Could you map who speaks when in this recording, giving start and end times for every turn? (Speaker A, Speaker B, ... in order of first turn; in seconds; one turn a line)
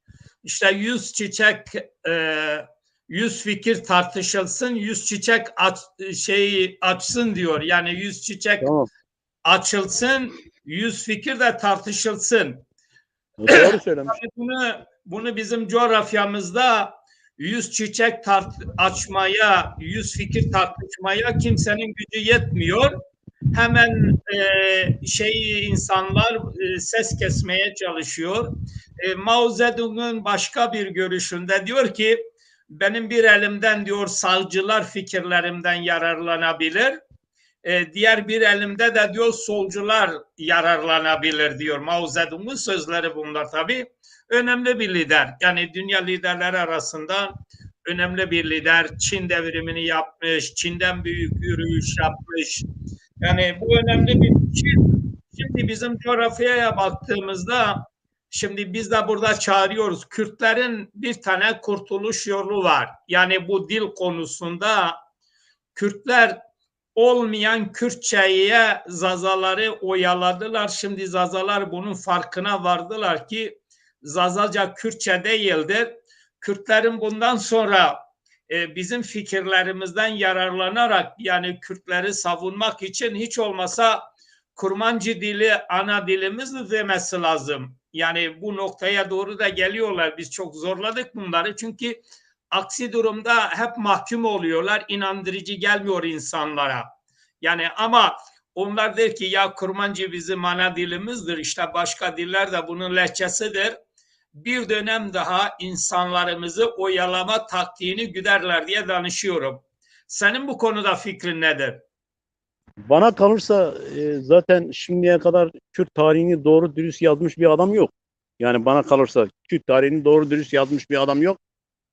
Speaker A: 0.4-8.7
Speaker B: 8.6-8.9
Speaker A: 9.4-12.6
Speaker B: 13.4-14.2
Speaker A: 13.5-22.9
Speaker A: 23.5-37.0
Speaker A: 37.6-52.6
Speaker A: 53.2-65.0
Speaker A: 65.7-66.4
Speaker A: 66.9-96.9
Speaker A: 97.4-103.8
Speaker A: 104.3-111.8
Speaker B: 112.9-121.4